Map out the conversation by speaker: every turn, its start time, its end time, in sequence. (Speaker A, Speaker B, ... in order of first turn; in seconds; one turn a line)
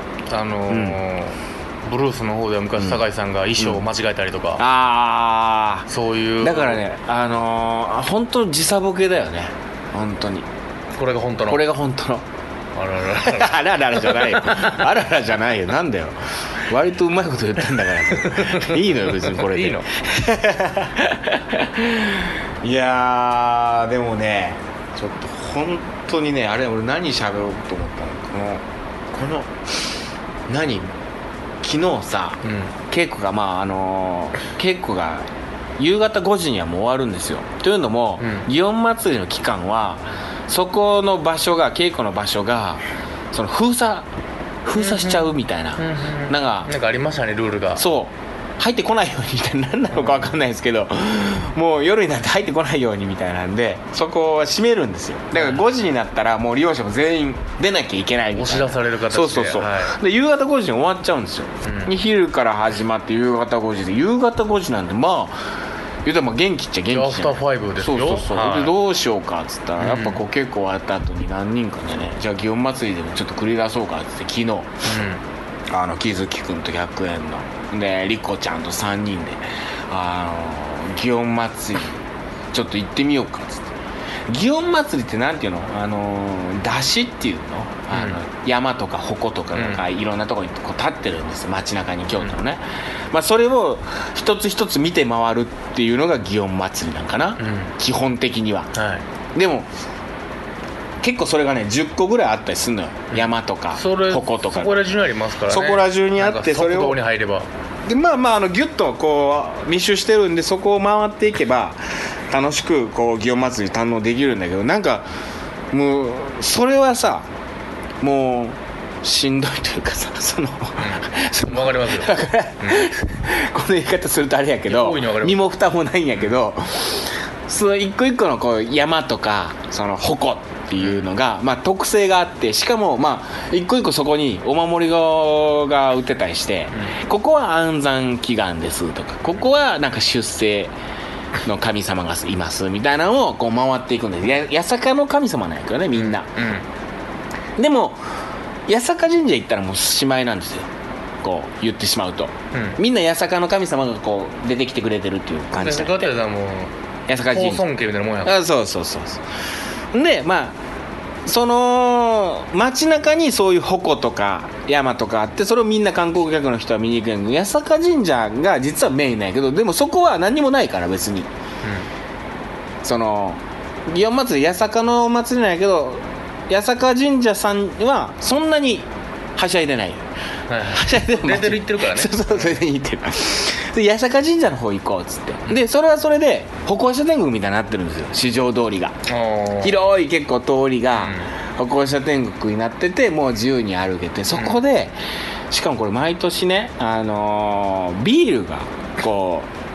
Speaker A: 0.3-4.6
Speaker B: 0.7-1.0
Speaker B: 4.6-5.9
Speaker A: 5.9-6.8
Speaker B: 6.4-10.4
Speaker A: 10.9-11.7
Speaker B: 11.4-12.2
Speaker A: 12.7-14.8
Speaker B: 13.2-29.5
Speaker A: 18.2-19.8
Speaker B: 30.5-30.9
Speaker B: 31.6-35.2
Speaker A: 32.4-32.7
Speaker B: 35.8-44.1
Speaker A: 38.2-38.5
Speaker B: 44.6-46.7
Speaker A: 44.7-47.8
Speaker B: 47.8-65.4
Speaker A: 49.9-50.3
Speaker A: 55.3-55.6
Speaker A: 58.3-60.0
Speaker A: 61.6-61.9
Speaker B: 66.0-74.7
Speaker A: 66.9-68.8
Speaker A: 69.8-70.2
Speaker A: 74.8-75.2
Speaker B: 75.7-82.0
Speaker B: 82.5-83.7
Speaker B: 84.3-98.7
Speaker A: 87.9-88.2
Speaker A: 89.5-89.8
Speaker A: 97.4-97.7
Speaker A: 98.7-99.0
Speaker B: 99.3-99.7
Speaker B: 101.0-104.8
Speaker A: 103.1-107.5
Speaker B: 105.5-107.0
Speaker B: 107.8-115.1
Speaker B: 115.7-117.3
Speaker B: 118.0-140.7
Speaker A: 120.8-122.9
Speaker A: 124.7-125.4
Speaker B: 141.4-146.3
Speaker A: 145.9-146.6
Speaker B: 147.6-148.0
Speaker B: 148.7-150.7
Speaker B: 151.2-156.1
Speaker A: 152.5-152.8
Speaker A: 155.5-158.4
Speaker B: 157.1-157.7
Speaker B: 158.2-159.2
Speaker B: 159.9-160.6
Speaker B: 161.2-171.3
Speaker B: 172.8-180.0
Speaker A: 180.5-182.6
Speaker B: 180.7-189.0
Speaker A: 189.1-189.7
Speaker B: 189.6-194.9
Speaker A: 191.0-191.3
Speaker B: 195.5-199.5